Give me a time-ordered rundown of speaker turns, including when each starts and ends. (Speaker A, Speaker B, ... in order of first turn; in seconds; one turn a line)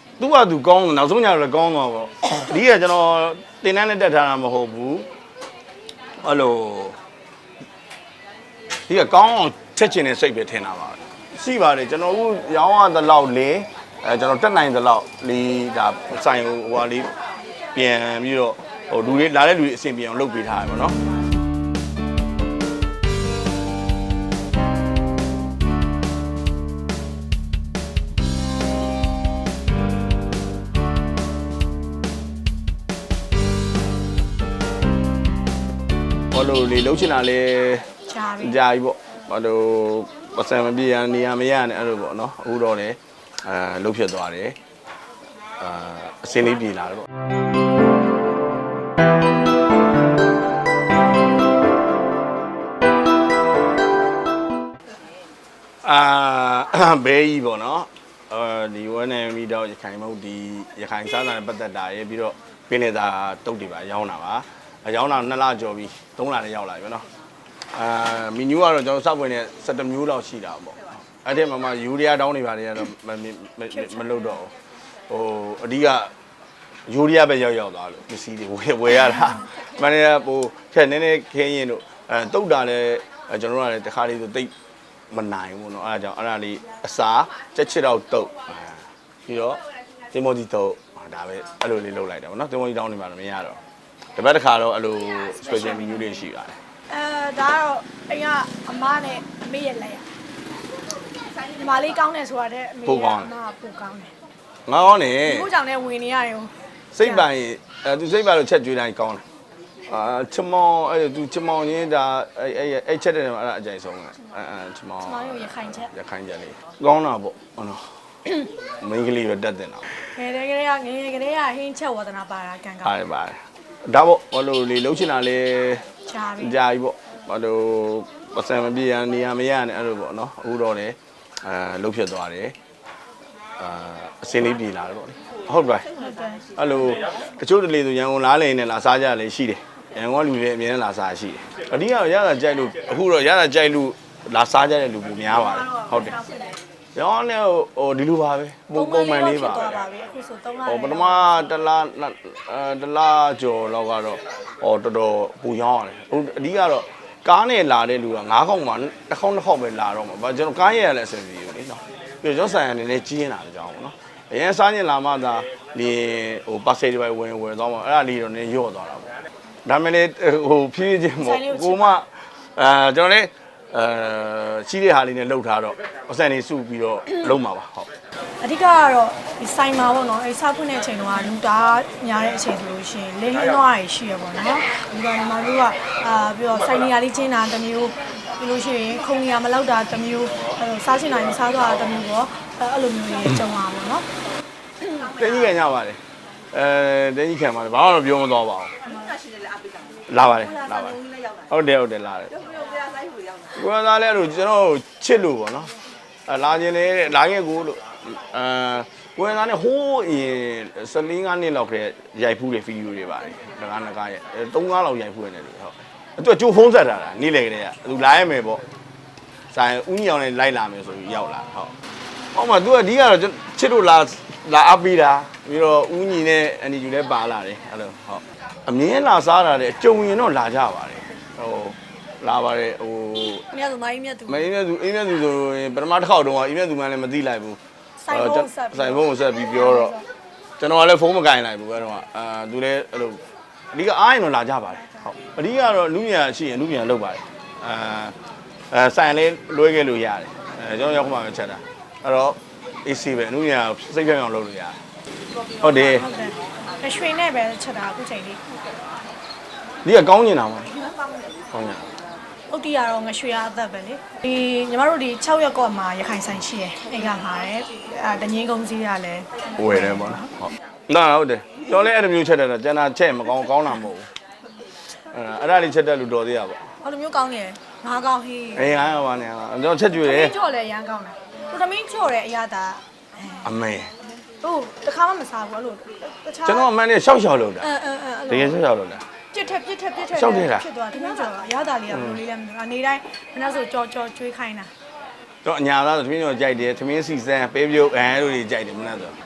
Speaker A: 0.2-5.1
Speaker A: 6.2-7.0
Speaker A: 8.9-17.1
Speaker A: 17.8-21.0
Speaker A: 36.3-37.9
Speaker B: 38.1-38.6
Speaker A: 38.4-44.6
Speaker A: 45.6-47.1
Speaker A: 55.8-67.0
Speaker A: 67.7-74.5
Speaker B: 73.7-74.4
Speaker A: 75.1-76.1
Speaker A: 76.9-84.5
Speaker A: 85.1-93.6
Speaker A: 94.2-96.6
Speaker B: 95.4-96.2
Speaker B: 96.9-100.1
Speaker B: 101.4-104.1
Speaker A: 102.8-103.3
Speaker A: 104.7-105.5
Speaker B: 105.2-107.2
Speaker A: 106.9-109.2
Speaker A: 109.9-118.0
Speaker B: 115.0-115.9
Speaker A: 118.8-119.8
Speaker B: 120.1-122.9
Speaker A: 122.8-125.8
Speaker B: 126.1-126.6
Speaker A: 126.4-132.5
Speaker A: 133.6-135.9
Speaker B: 136.0-136.5
Speaker A: 136.6-146.2
Speaker A: 146.9-149.8
Speaker B: 148.8-151.4
Speaker A: 150.7-169.1
Speaker A: 169.7-177.9
Speaker B: 171.2-172.0
Speaker B: 178.4-194.1
Speaker A: 194.9-196.0
Speaker A: 196.5-198.7
Speaker A: 200.1-202.3
Speaker A: 203.5-205.7
Speaker A: 206.3-218.6
Speaker A: 219.5-221.7
Speaker A: 222.3-233.4
Speaker B: 233.5-234.5
Speaker A: 234.3-237.6
Speaker B: 238.0-240.0
Speaker A: 238.1-240.0
Speaker A: 240.6-243.2
Speaker A: 243.7-248.2
Speaker A: 248.7-254.8
Speaker A: 255.6-256.1
Speaker B: 255.7-258.4
Speaker A: 259.8-260.7
Speaker A: 261.5-261.9
Speaker B: 262.5-270.3
Speaker A: 269.6-274.1
Speaker A: 275.1-276.6
Speaker B: 276.8-278.7
Speaker A: 278.6-280.4
Speaker B: 279.9-283.5
Speaker A: 283.4-283.9
Speaker B: 284.4-286.7
Speaker A: 286.4-287.7
Speaker B: 287.6-288.6
Speaker A: 288.3-289.1
Speaker B: 289.3-294.7
Speaker A: 290.1-290.7
Speaker A: 291.9-292.2
Speaker A: 295.4-299.1